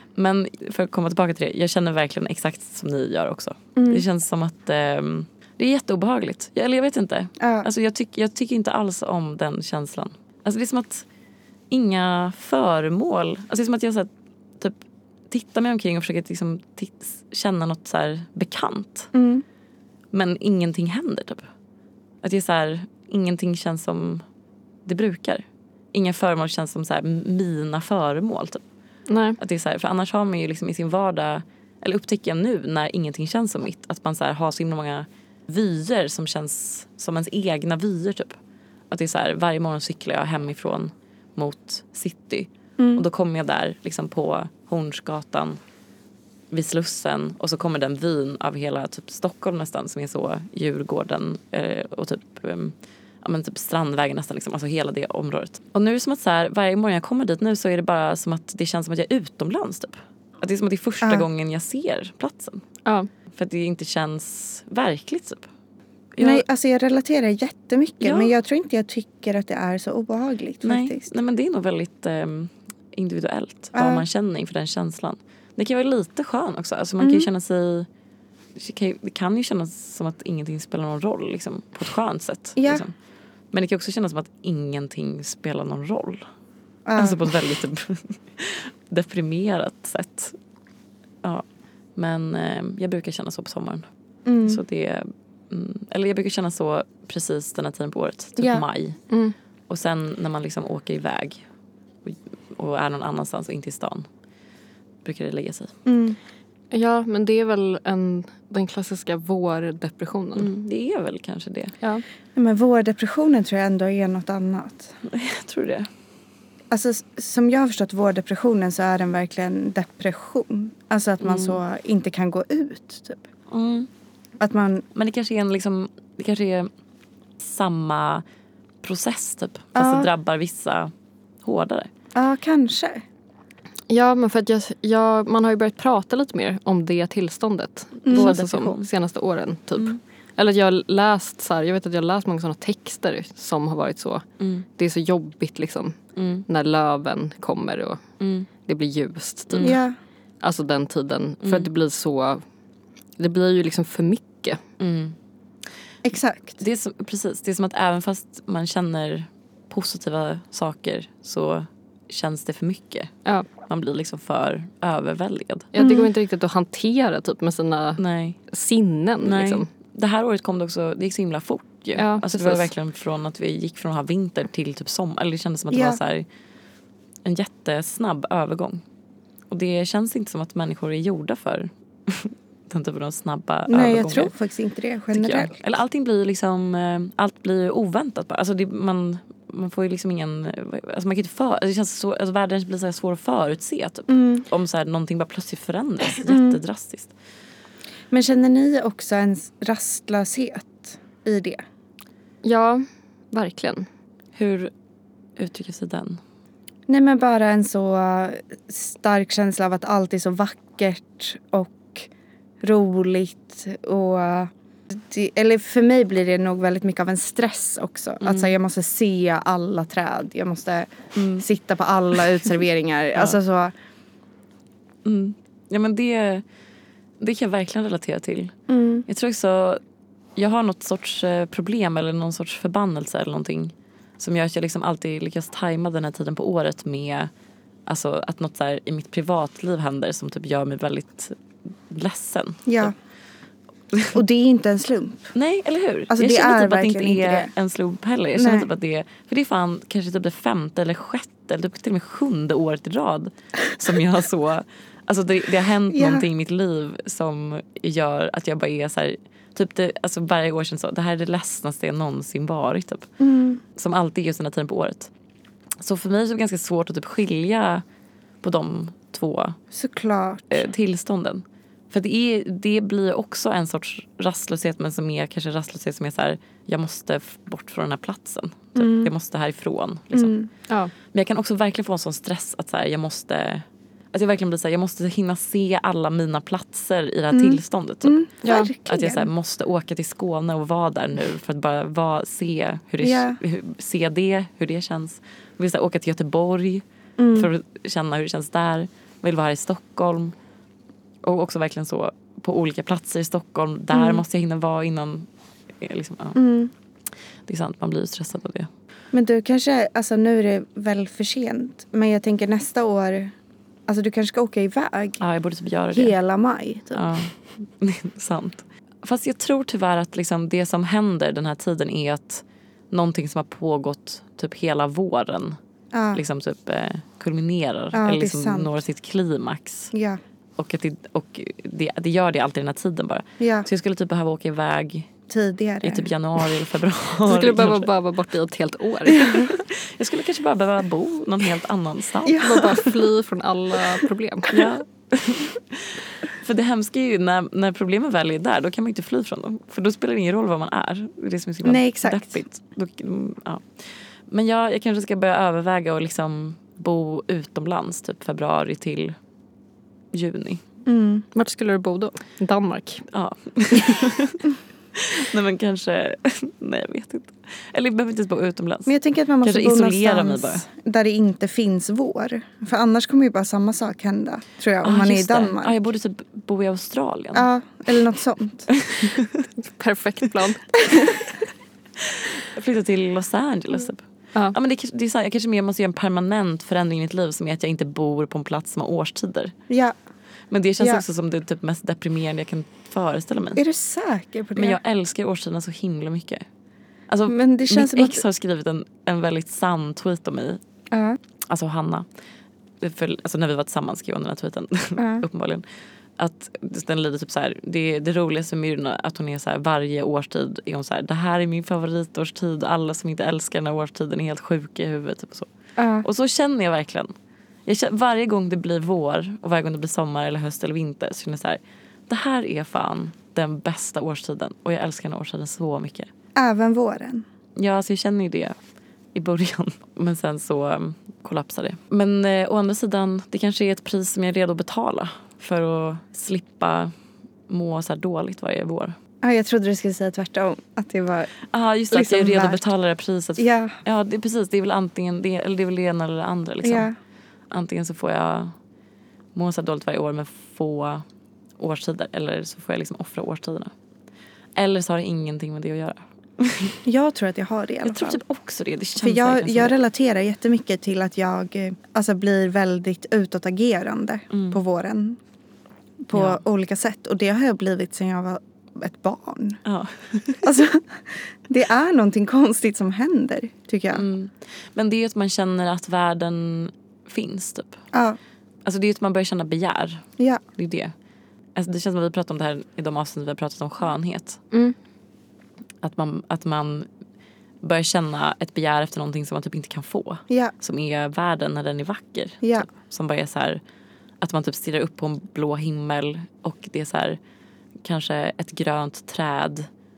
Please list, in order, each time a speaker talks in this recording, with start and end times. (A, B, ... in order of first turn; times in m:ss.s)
0:00.2-0:11.1 A
0:03.8-0:04.0 B
0:07.4-0:07.7 B
0:11.7-0:14.8 A
0:15.3-0:19.1 A
0:19.1-0:19.4 B
0:20.1-0:21.5 A
0:22.2-0:24.2 A
0:24.8-0:28.6 A
0:29.1-0:29.4 C
0:29.4-0:38.4 A
0:38.9-0:45.6 A
0:42.8-0:43.0 B
0:46.5-1:02.6 A
1:03.3-1:05.5 A
1:06.2-1:06.4 A
1:06.2-1:11.1 B
1:08.0-1:08.3 A
1:10.6-1:17.9 A
1:13.8-1:14.0 B
1:17.0-1:17.3 B
1:18.6-1:22.9 A
1:22.6-1:22.8 B
1:23.5-1:26.3 A
1:26.9-1:27.3 B
1:27.0-1:30.4 A
1:32.0-1:33.8 A
1:34.3-1:34.6 B
1:34.4-1:39.0 A
1:38.4-1:38.6 B
1:39.1-1:39.4 C
1:39.7-1:41.4 A
1:42.0-1:44.1 A
1:45.0-1:45.7 A
1:45.9-1:46.2 B
1:46.7-1:50.5 C
1:50.4-1:51.7 A
1:52.4-1:54.9 B
1:55.1-1:55.9 A
1:56.7-2:03.2 B
2:01.2-2:01.6 A
2:03.5-2:03.9 A
2:04.4-2:04.9 B
2:05.0-2:06.7 A
2:07.4-2:08.2 A
2:08.8-2:10.9 A
2:09.8-2:10.1 B
2:11.4-2:11.9 A
2:12.2-2:13.0 B
2:13.9-2:24.3 C
2:18.1-2:18.3 B
2:18.1-2:18.9 A
2:24.8-2:26.0 C
2:26.2-2:26.4 A
2:26.5-2:28.0 C
2:28.2-2:28.5 A
2:28.6-2:29.8 C
2:29.5-2:29.8 A
2:29.6-2:30.0 B
2:30.4-2:32.4 C
2:31.4-2:31.7 A
2:33.2-2:34.6 C
2:34.8-2:35.2 A
2:36.0-2:36.6 B
2:36.6-2:45.7 A
2:45.7-2:49.7 C
2:45.8-2:46.1 B
2:48.0-2:48.4 A
2:49.2-2:56.2 A
2:52.0-2:52.7 C
2:55.7-2:56.0 B
2:57.2-2:58.8 A
2:59.5-3:04.3 A
3:03.7-3:05.6 B
3:05.1-3:17.1 A
3:14.1-3:14.4 B
3:16.3-3:16.6 B
3:18.1-3:21.6 B
3:22.4-3:23.9 C
3:24.4-3:24.7 A
3:25.4-3:26.2 A
3:26.9-3:32.1 B
3:32.6-3:43.7 B
3:38.2-3:38.6 A
3:41.2-3:41.4 A
3:45.0-3:46.4 A
3:47.2-3:48.6 A
3:48.7-3:49.0 B
3:49.1-3:49.8 A
3:50.4-3:57.3 A
3:57.9-4:01.4 A
4:01.9-4:02.9 A
4:02.7-4:02.9 B
4:03.9-4:04.2 A
4:04.1-4:05.3 B
4:05.3-4:23.1 A
4:06.1-4:07.5 B
4:08.4-4:08.7 B
4:15.9-4:16.3 B
4:23.2-4:23.6 B
4:23.8-4:25.1 A
4:25.8-4:27.8 A
4:28.4-4:29.6 A
4:29.7-4:30.7 B
4:30.5-4:40.4 A
4:38.8-4:39.1 B
4:40.1-4:40.5 B
4:41.1-4:48.2 A
4:47.3-4:49.3 B
4:48.4-4:48.7 C
4:48.8-5:00.4 A
4:53.0-4:53.4 B
4:57.2-4:57.5 B
5:01.2-5:05.3 A
5:03.9-5:04.2 B
5:05.8-5:06.4 A
5:06.4-5:06.7 B
5:07.5-5:08.7 A
5:09.1-5:13.3 B
5:13.9-5:15.2 B
5:15.2-5:16.2 A
5:15.9-5:17.1 B
5:16.9-5:25.6 A
5:25.9-5:26.2 B
5:26.1-5:29.9 A
5:27.9-5:28.7 B
5:29.9-5:30.2 B
5:30.6-5:35.1 A
5:33.4-5:33.7 B
5:35.3-5:36.1 B
5:35.8-5:37.9 A
5:37.3-5:39.4 C
5:39.1-5:39.5 B
5:39.2-5:42.8 A
5:42.3-5:42.9 B
5:42.4-5:44.7 C
5:44.5-5:53.7 A
5:51.6-5:52.4 B
5:54.3-5:59.2 A
6:00.1-6:00.6 A
6:00.9-6:01.3 B
6:01.3-6:03.1 C
6:03.1-6:10.6 A
6:08.9-6:15.7 B
6:14.8-6:17.5 A
6:17.3-6:18.7 B
6:18.7-6:19.5 A
6:19.6-6:20.8 C
6:22.0-6:29.5 A
6:29.7-6:30.0 B
6:30.5-6:33.6 A
6:33.6-6:34.8 B
6:34.6-6:36.5 A
6:37.1-6:40.6 A
6:37.3-6:38.2 B
6:40.9-6:41.2 B
6:41.5-6:42.1 A
6:42.8-6:45.6 A
6:45.0-6:45.2 B
6:46.2-6:55.5 A
6:55.8-6:56.1 B
6:56.0-6:57.1 A
6:57.7-7:06.1 A
7:06.4-7:07.2 B
7:07.6-7:08.6 A
7:09.1-7:16.9 A
7:17.5-7:19.0 A
7:19.2-7:21.4 B
7:21.5-7:26.9 A
7:21.9-7:22.7 B
7:23.4-7:23.8 B
7:26.6-7:26.9 B
7:27.5-7:28.6 A
7:29.4-7:31.0 A
7:31.6-7:33.7 A
7:34.6-7:36.8 A
7:36.8-7:38.2 B
7:37.8-7:39.8 A
7:39.0-7:45.2 B
7:44.3-7:44.6 A
7:46.1-7:49.6 B
7:46.1-7:46.4 A
7:49.6-7:50.6 A
7:50.4-7:54.0 B
7:53.9-7:57.8 A
7:57.9-7:58.2 B
7:58.6-8:00.9 A
8:01.6-8:04.4 A
8:05.8-8:06.9 A
8:07.6-8:13.6 A
8:12.4-8:12.7 B
8:14.2-8:17.2 A
8:17.8-8:19.7 A